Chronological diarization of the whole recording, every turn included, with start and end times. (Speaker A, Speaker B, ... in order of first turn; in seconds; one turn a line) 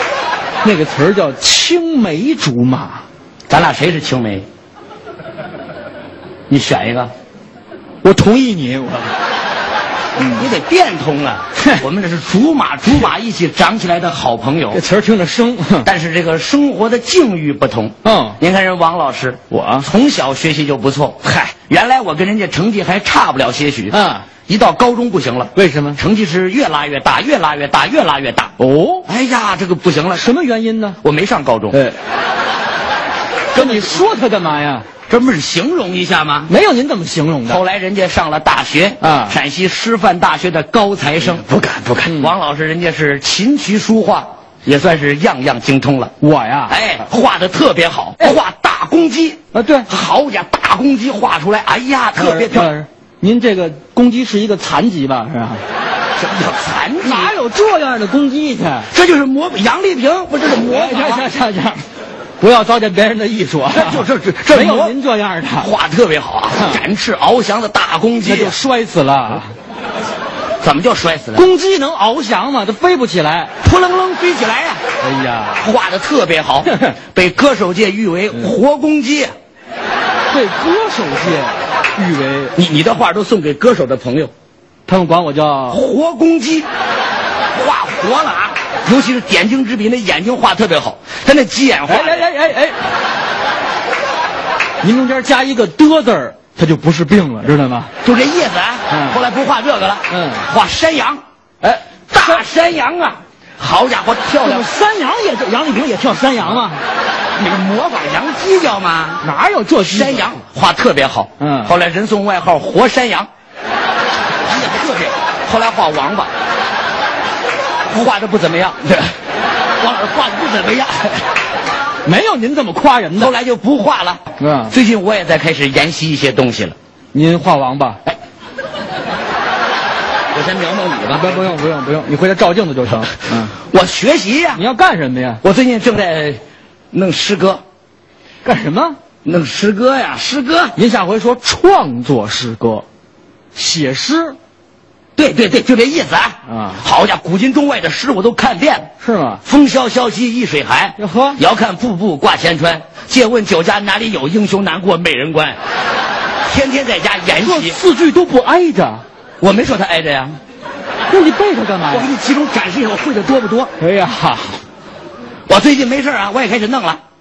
Speaker A: 0.6-3.0
Speaker B: 3.5-4.5
Speaker B: 6.5-7.1
Speaker A: 8.0-9.1
Speaker B: 10.3-14.8
Speaker A: 14.7-15.9
Speaker B: 15.8-28.5
Speaker A: 18.0-18.4
Speaker A: 19.5-19.9
Speaker A: 23.9-24.3
Speaker A: 25.5-26.0
Speaker A: 28.6-29.1
Speaker B: 29.1-30.3
Speaker A: 30.1-31.0
Speaker B: 31.0-31.8
Speaker A: 31.7-32.0
Speaker B: 33.5-34.1
Speaker A: 33.5-34.9
Speaker B: 35.1-36.5
Speaker A: 36.5-37.6
Speaker B: 37.4-46.1
Speaker A: 39.0-39.4
Speaker A: 42.0-42.3
Speaker A: 46.2-46.7
Speaker B: 46.7-52.7
Speaker A: 49.5-49.9
Speaker A: 52.1-55.6
Speaker B: 56.2-57.3
Speaker A: 57.0-58.9
Speaker B: 58.9-61.3
Speaker A: 60.6-61.8
Speaker A: 62.4-65.7
Speaker B: 63.7-64.9
Speaker B: 65.6-68.6
Speaker A: 66.5-66.8
Speaker A: 68.2-69.5
Speaker B: 70.6-71.5
Speaker A: 71.3-73.5
Speaker B: 73.6-74.8
Speaker A: 75.0-75.7
Speaker B: 75.6-79.3
Speaker A: 80.3-82.5
Speaker B: 82.5-84.3
Speaker A: 84.9-85.8
Speaker B: 85.7-86.7
Speaker B: 87.5-92.3
Speaker A: 91.8-92.8
Speaker A: 94.8-97.9
Speaker B: 98.0-101.2
Speaker A: 98.9-99.2
Speaker A: 100.1-100.5
Speaker A: 101.6-102.4
Speaker B: 102.1-104.7
Speaker A: 104.4-106.8
Speaker B: 107.3-109.2
Speaker A: 109.2-110.3
Speaker B: 109.8-113.3
Speaker A: 111.4-111.7
Speaker B: 114.4-116.3
Speaker B: 117.9-119.2
Speaker B: 119.8-121.2
Speaker A: 122.0-123.3
Speaker B: 123.1-126.8
Speaker A: 124.4-124.7
Speaker A: 127.1-128.0
Speaker B: 130.3-131.4
Speaker A: 131.1-133.5
Speaker B: 133.5-134.6
Speaker A: 134.5-135.4
Speaker B: 135.4-136.4
Speaker B: 136.9-137.6
Speaker A: 138.4-139.0
Speaker B: 139.2-140.8
Speaker A: 140.8-142.8
Speaker A: 143.5-144.4
Speaker B: 145.2-148.9
Speaker A: 146.5-146.8
Speaker A: 149.0-149.4
Speaker B: 149.4-155.6
Speaker A: 151.0-151.4
Speaker B: 156.4-157.8
Speaker A: 157.3-159.0
Speaker B: 159.4-160.4
Speaker A: 161.1-162.1
Speaker B: 161.9-163.7
Speaker A: 163.8-164.6
Speaker B: 165.5-167.0